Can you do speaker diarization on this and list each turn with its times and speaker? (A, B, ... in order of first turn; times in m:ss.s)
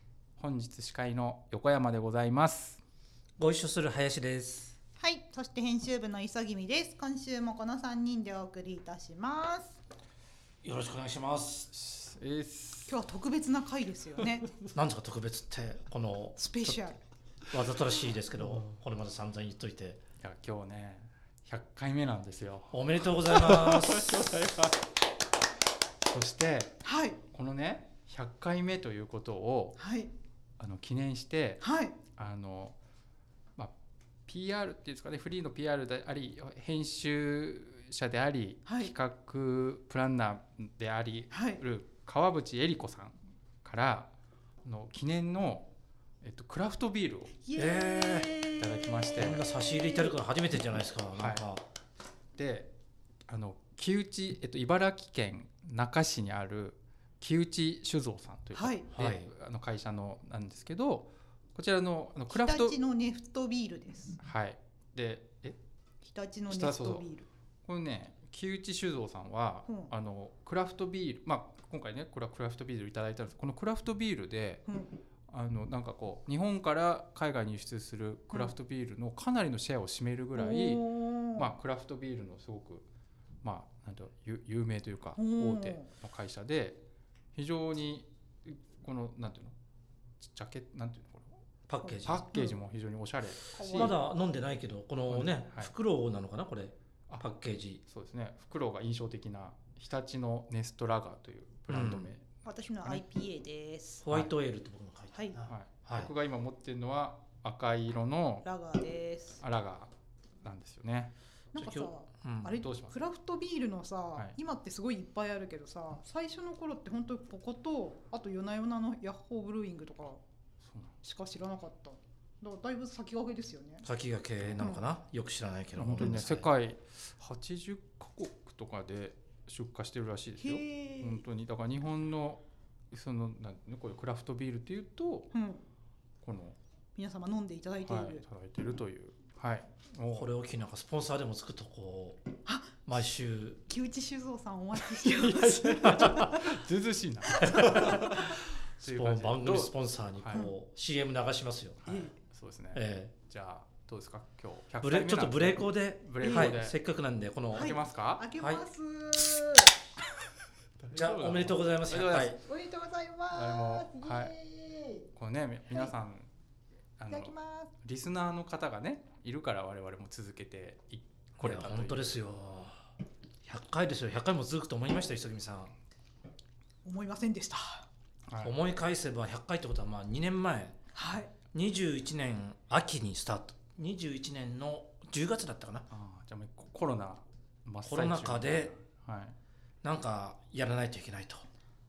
0:00.4-0:02.8 A
0:03.4-0:04.8 B
0:05.0-0:09.8 C
0:10.6-0:11.7 B
0:11.7-0:13.0 A
0:12.9-0:14.5 C
0:14.7-0:16.4 B
0:16.4-0:17.0 C
0:17.5-0:20.0 B
0:20.2-0:24.8 A
0:22.7-0:24.3 B
0:26.1-0:29.8 A
0:26.8-0:27.2 C
0:29.8-0:30.1 C
0:30.6-0:32.8 A
0:31.6-0:32.0 C
0:34.3-0:44.1 A
0:38.7-0:38.9 C
0:41.3-0:41.6 C
0:44.6-0:47.4 A
0:47.4-0:50.1 C
0:47.6-0:48.3 B
0:48.6-0:49.4 A
0:49.2-0:51.6 B
0:51.2-0:51.5 A
0:52.4-0:52.7 A
0:53.3-1:02.8 A
0:58.6-0:58.9 C
0:58.9-0:59.3 B
1:02.3-1:04.2 C
1:04.2-1:05.6 A
1:06.0-1:07.3 C
1:06.5-1:07.1 A
1:07.6-1:14.7 A
1:14.7-1:14.9 C
1:15.3-1:22.9 A
1:20.4-1:21.5 C
1:23.4-1:26.8 A
1:25.2-1:25.9 C
1:27.4-1:29.6 A
1:30.2-1:31.3 A
1:31.7-1:32.3 B
1:31.8-1:32.6 C
1:32.0-1:34.0 A
1:33.5-1:33.9 C
1:33.6-1:37.8 B
1:35.1-1:35.7 A
1:37.9-1:42.3 A
1:41.7-1:42.1 B
1:42.4-1:44.0 C
1:44.0-1:46.1 B
1:45.5-1:48.5 A
1:48.4-1:49.4 C
1:49.4-1:51.1 A
1:51.5-2:00.2 C
1:51.6-1:52.6 B
1:52.6-1:53.0 A
2:00.6-2:00.9 A
2:01.0-2:03.9 C
2:03.8-2:06.5 B
2:05.8-2:15.3 A
2:10.4-2:11.2 C
2:15.3-2:15.6 C
2:16.2-2:16.6 A
2:17.0-2:18.2 C
2:17.8-2:20.3 A
2:20.1-2:22.3 B
2:22.5-2:22.8 C
2:22.9-2:23.6 B
2:23.7-2:26.6 C
2:24.8-2:30.5 A
2:25.9-2:26.3 B
2:27.3-2:27.7 C
2:27.4-2:28.2 B
2:28.8-2:31.8 B
2:31.8-2:36.8 A
2:31.9-2:32.1 C
2:32.7-2:33.1 B
2:34.8-2:37.8 B
2:36.2-2:36.5 C
2:37.5-2:38.3 A
2:37.6-2:39.8 C
2:38.4-2:38.6 B
2:40.8-2:42.4 A
2:40.9-2:42.4 B
2:42.4-2:45.1 C
2:43.3-2:44.3 A
2:45.2-2:46.3 A
2:47.0-2:52.2 A
2:47.1-2:47.7 C
2:51.4-2:52.8 B
2:53.4-2:55.7 B
2:56.8-2:57.9 C
2:58.3-2:58.6 A
2:58.4-3:00.8 B
3:01.0-3:01.3 C
3:01.5-3:05.9 B
3:05.9-3:09.4 A
3:07.8-3:08.7 B
3:09.8-3:11.4 B